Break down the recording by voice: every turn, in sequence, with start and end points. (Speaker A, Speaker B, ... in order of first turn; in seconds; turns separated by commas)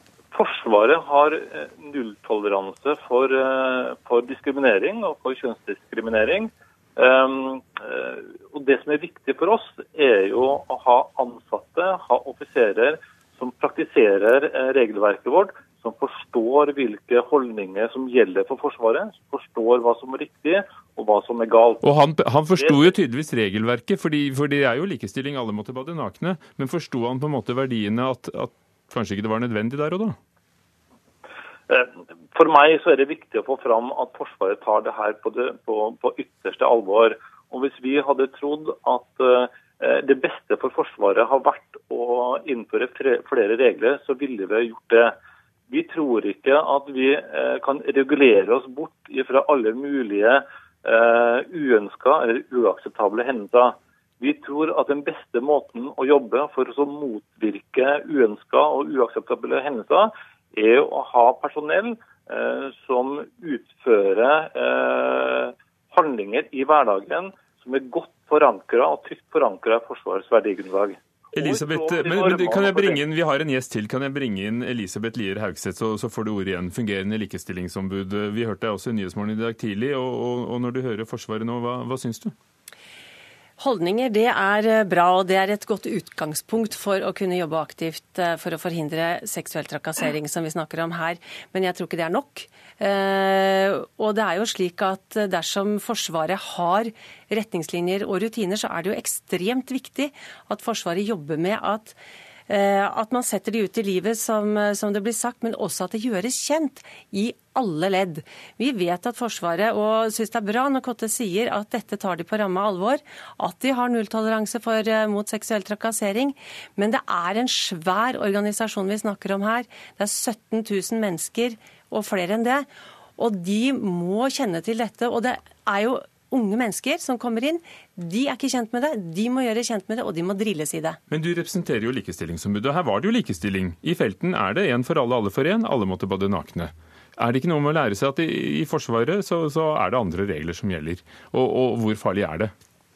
Speaker A: 0.3-21.8, Speaker B: 21.8-30.2, Speaker A: 22.6-22.9, Speaker A: 31.7-45.1, Speaker A: 45.7-73.0, Speaker B: 71.3-82.3, Speaker C: 83.6-102.0, Speaker C: 102.5-131.0, Speaker B: 131.1-142.5